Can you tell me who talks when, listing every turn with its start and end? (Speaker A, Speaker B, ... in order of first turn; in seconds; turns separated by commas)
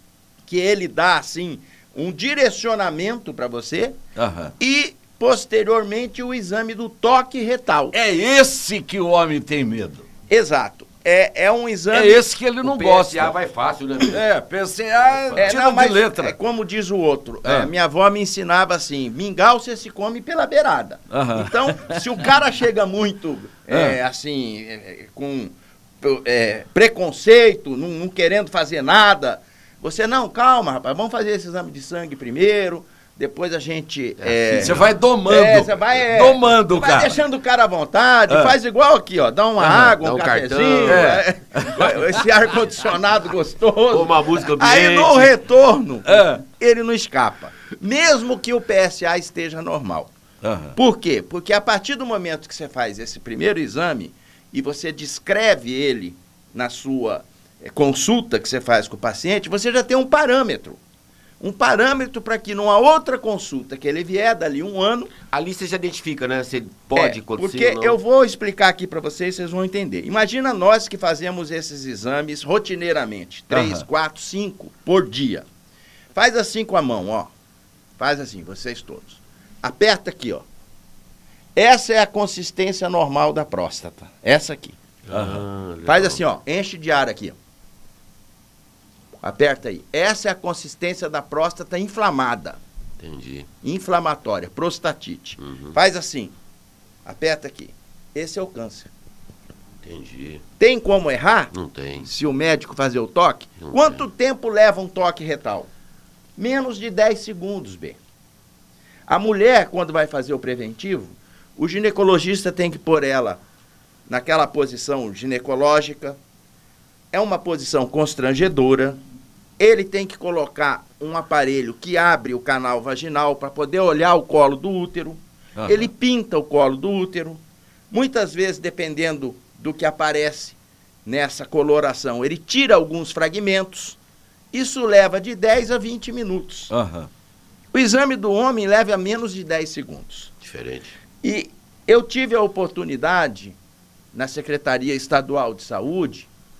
Speaker A: 0.5-4.0, Speaker B: 4.2-4.5, Speaker A: 4.6-8.0, Speaker B: 7.9-10.1, Speaker A: 10.3-12.2, Speaker B: 11.9-13.3, Speaker C: 12.6-14.2, Speaker B: 14.0-16.4, Speaker C: 15.1-15.5, Speaker A: 15.4-50.1, Speaker B: 17.4-17.7, Speaker B: 21.1-22.1, Speaker B: 23.7-24.0, Speaker C: 34.2-35.0, Speaker B: 34.5-37.2, Speaker B: 38.3-38.6, Speaker B: 39.6-40.0, Speaker C: 40.0-41.2, Speaker B: 40.9-42.1, Speaker C: 43.9-45.3, Speaker B: 46.1-46.4, Speaker B: 50.4-50.8, Speaker A: 50.8-60.8, Speaker A: 61.4-65.1, Speaker C: 65.3-68.0, Speaker A: 67.0-75.5, Speaker B: 73.5-73.8, Speaker A: 76.2-77.3, Speaker A: 78.0-80.5, Speaker A: 81.6-84.8, Speaker C: 85.1-86.2, Speaker B: 85.1-85.4, Speaker A: 85.8-87.4, Speaker A: 89.2-92.6, Speaker C: 93.0-93.5, Speaker A: 93.6-96.3, Speaker C: 95.4-95.8, Speaker A: 97.0-98.9, Speaker C: 99.8-100.4, Speaker A: 100.6-101.5, Speaker C: 101.5-102.1, Speaker A: 102.0-105.7, Speaker C: 103.6-104.0, Speaker A: 106.4-108.0, Speaker A: 109.1-113.4, Speaker A: 114.1-116.2, Speaker A: 117.1-119.0, Speaker A: 119.6-127.4, Speaker B: 125.6-125.9, Speaker A: 127.9-134.0, Speaker A: 134.5-136.7, Speaker B: 136.7-137.1, Speaker A: 137.7-140.3, Speaker C: 140.4-140.9, Speaker A: 141.2-143.6, Speaker A: 144.1-146.3